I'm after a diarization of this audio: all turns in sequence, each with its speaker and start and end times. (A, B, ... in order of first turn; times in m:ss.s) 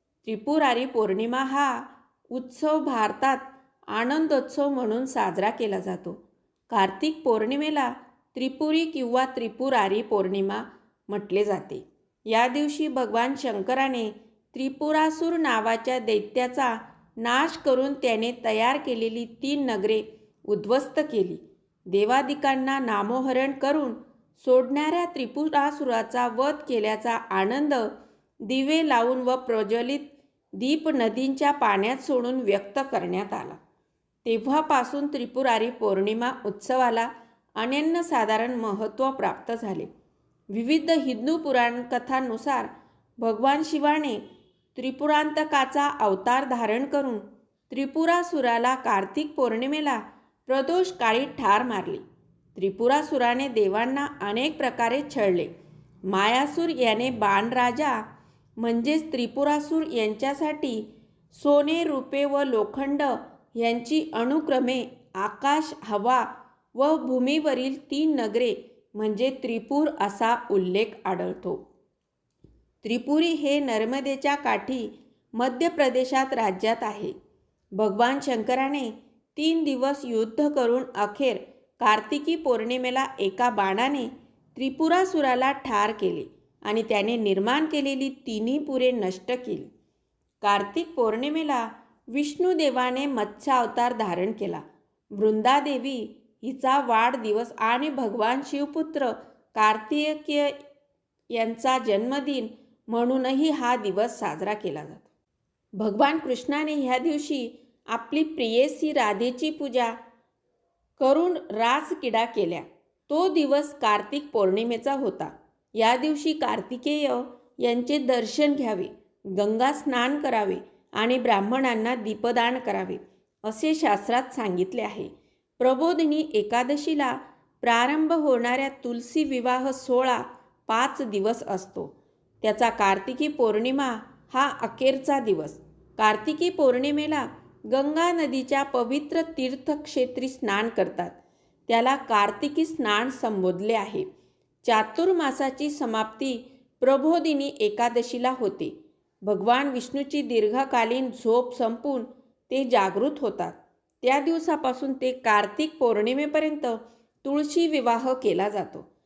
0:00.2-0:27.9 A
0:28.4-0:33.6 A
0:34.2-0:39.9 A
0:40.5-0:44.2 A
0:44.7-0:52.0 A
0:52.6-0:55.5 A
0:56.1-0:58.0 A
0:58.6-1:11.6 A
1:12.8-1:17.1 A
1:17.7-1:29.7 A
1:30.4-1:40.6 A
1:41.3-1:45.0 A
1:45.8-1:50.0 A
1:51.0-2:21.2 A
2:21.7-2:24.1 A
2:24.6-2:28.7 A
2:29.2-2:38.9 A